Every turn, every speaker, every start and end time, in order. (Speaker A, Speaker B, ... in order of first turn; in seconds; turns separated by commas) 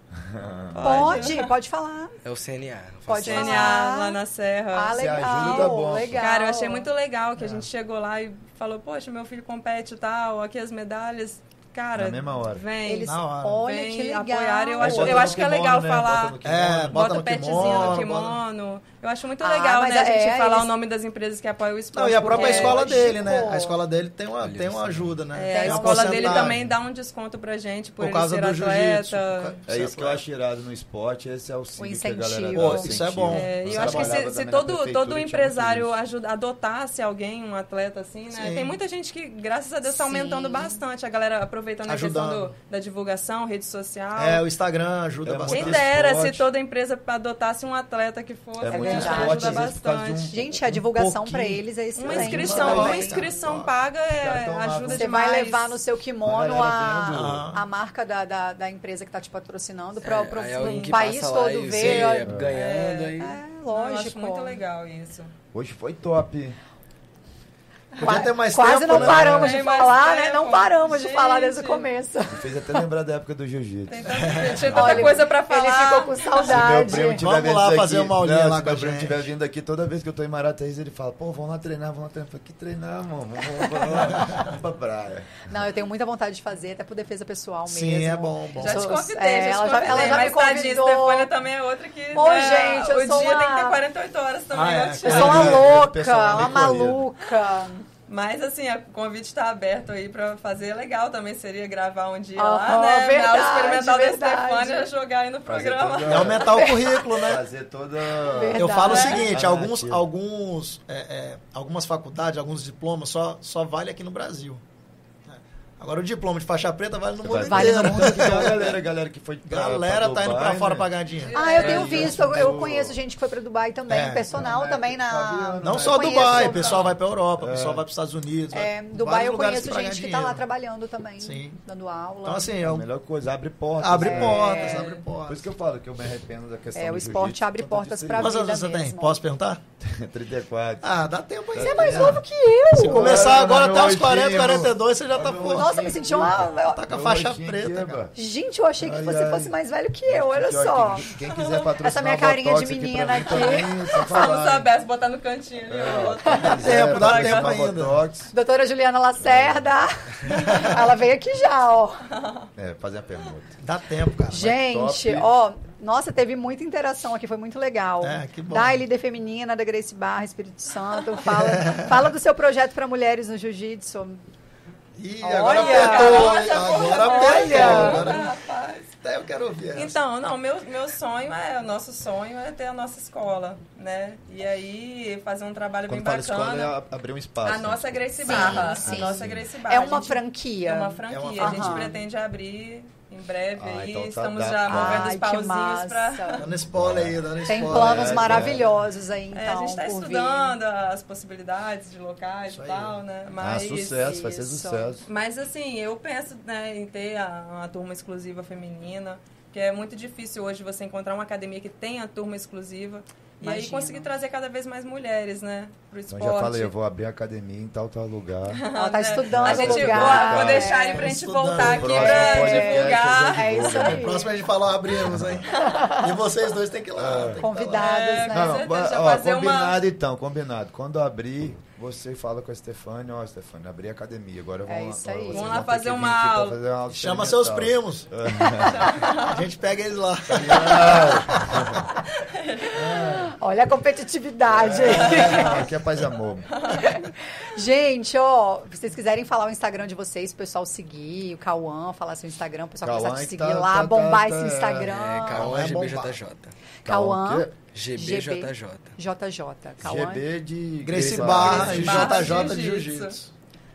Speaker A: 0.1-1.3, Speaker B: 0.7-1.5, Speaker C: 0.8-2.1, Speaker D: 2.2-3.7, Speaker C: 3.1-4.2, Speaker B: 3.2-16.4, Speaker C: 4.7-6.9, Speaker A: 5.0-6.2, Speaker A: 11.9-12.7, Speaker C: 12.8-15.4, Speaker E: 13.1-13.6, Speaker A: 14.8-18.1, Speaker E: 16.4-18.4, Speaker B: 16.9-23.2, Speaker C: 19.4-20.7, Speaker E: 21.9-26.6, Speaker C: 22.3-23.8, Speaker D: 24.4-25.2, Speaker B: 25.3-29.6, Speaker C: 25.4-26.5, Speaker E: 28.0-30.2, Speaker A: 29.7-35.9, Speaker C: 31.8-33.0, Speaker E: 32.5-34.2, Speaker B: 33.3-44.4, Speaker E: 38.3-38.8, Speaker C: 39.8-40.8, Speaker E: 41.9-42.5, Speaker E: 44.2-46.2, Speaker A: 45.2-46.4, Speaker B: 45.5-50.3, Speaker A: 48.6-51.1, Speaker C: 48.7-49.7, Speaker C: 50.3-53.3, Speaker E: 50.7-53.7, Speaker B: 51.9-55.8, Speaker A: 52.1-53.0, Speaker A: 54.2-55.1, Speaker C: 54.9-62.4, Speaker A: 56.2-57.5, Speaker E: 57.1-57.6, Speaker D: 60.0-63.4, Speaker B: 60.6-61.0, Speaker A: 61.8-62.5, Speaker B: 62.5-65.3, Speaker C: 63.2-64.6, Speaker A: 65.5-66.6, Speaker E: 68.0-69.6, Speaker C: 68.0-72.8, Speaker A: 68.8-69.3, Speaker B: 69.2-71.9, Speaker A: 72.3-75.2, Speaker B: 73.9-76.5, Speaker E: 74.1-74.7, Speaker C: 74.7-77.2, Speaker A: 76.4-85.5, Speaker E: 77.2-79.3, Speaker C: 83.8-84.2, Speaker C: 85.5-91.3, Speaker E: 87.7-89.0, Speaker B: 88.5-95.6, Speaker A: 89.9-90.1, Speaker C: 92.1-93.8, Speaker E: 94.5-95.7, Speaker C: 95.0-97.8, Speaker A: 95.1-97.0, Speaker E: 96.3-96.9, Speaker B: 98.1-106.5, Speaker C: 102.4-104.9, Speaker A: 105.5-106.7, Speaker E: 106.0-107.4, Speaker C: 106.5-107.3, Speaker A: 107.2-110.0, Speaker C: 108.2-109.2, Speaker E: 108.6-114.6, Speaker B: 108.9-109.2, Speaker E: 115.3-118.8, Speaker A: 117.2-120.9, Speaker C: 117.4-118.7, Speaker E: 119.5-122.1, Speaker B: 121.2-122.1, Speaker C: 121.3-126.9, Speaker A: 121.5-123.0, Speaker E: 123.9-124.5, Speaker A: 124.3-127.8, Speaker E: 125.6-130.4, Speaker C: 128.5-132.5, Speaker E: 131.2-131.6, Speaker E: 132.2-132.9, Speaker A: 132.6-138.4, Speaker E: 133.8-135.4, Speaker C: 133.9-135.0, Speaker C: 136.7-139.2, Speaker E: 138.2-139.6, Speaker A: 139.8-140.9, Speaker E: 140.8-142.2, Speaker A: 141.5-142.2, Speaker C: 141.6-143.4, Speaker E: 142.7-148.0, Speaker A: 142.8-148.1, Speaker C: 145.5-146.8, Speaker C: 148.1-151.1, Speaker A: 148.8-149.5, Speaker A: 150.1-154.7, Speaker B: 151.3-151.7, Speaker C: 151.8-154.0, Speaker B: 153.9-157.5, Speaker A: 155.7-158.3, Speaker E: 156.6-158.0, Speaker C: 158.3-162.1, Speaker A: 159.2-159.7, Speaker E: 160.3-160.9, Speaker B: 162.1-162.5, Speaker A: 162.6-163.6, Speaker E: 163.6-164.5, Speaker A: 164.3-165.3, Speaker C: 164.3-174.2, Speaker E: 168.0-168.8, Speaker E: 171.2-172.1, Speaker E: 175.0-178.3, Speaker C: 175.2-178.1, Speaker B: 175.4-178.9, Speaker A: 177.2-178.3, Speaker E: 179.0-180.0, Speaker B: 179.7-186.7, Speaker A: 185.9-189.5, Speaker B: 187.4-196.6, Speaker C: 188.2-191.9, Speaker E: 191.1-191.9, Speaker A: 193.6-195.1, Speaker C: 194.7-196.4, Speaker E: 196.4-198.6, Speaker A: 196.7-198.7, Speaker C: 197.4-200.6, Speaker B: 199.3-204.1, Speaker E: 202.5-203.0, Speaker A: 203.4-205.1, Speaker C: 203.9-205.0, Speaker B: 205.1-216.7, Speaker C: 213.4-214.1, Speaker A: 216.1-218.6, Speaker B: 218.5-224.0, Speaker C: 218.7-221.1, Speaker A: 219.2-224.2, Speaker E: 220.9-222.4, Speaker C: 221.9-224.4, Speaker E: 223.8-227.9, Speaker A: 225.0-225.4, Speaker C: 225.7-226.0, Speaker A: 226.9-227.4, Speaker C: 227.4-228.6, Speaker B: 227.7-229.8, Speaker A: 228.3-239.0, Speaker C: 234.7-235.6, Speaker B: 235.3-236.6, Speaker E: 236.9-238.1, Speaker B: 238.7-239.4, Speaker E: 239.2-241.8, Speaker A: 240.3-241.9, Speaker B: 242.2-242.8, Speaker E: 242.8-243.3, Speaker C: 242.9-245.7, Speaker A: 244.5-246.5, Speaker E: 244.8-245.4, Speaker B: 244.9-245.6, Speaker B: 246.5-246.9, Speaker C: 246.7-255.5, Speaker A: 252.8-255.7, Speaker D: 254.9-256.5, Speaker E: 255.3-256.2, Speaker A: 256.8-257.5, Speaker C: 256.8-260.2, Speaker D: 257.7-258.9, Speaker A: 259.8-262.3, Speaker E: 260.8-263.3, Speaker B: 261.0-263.1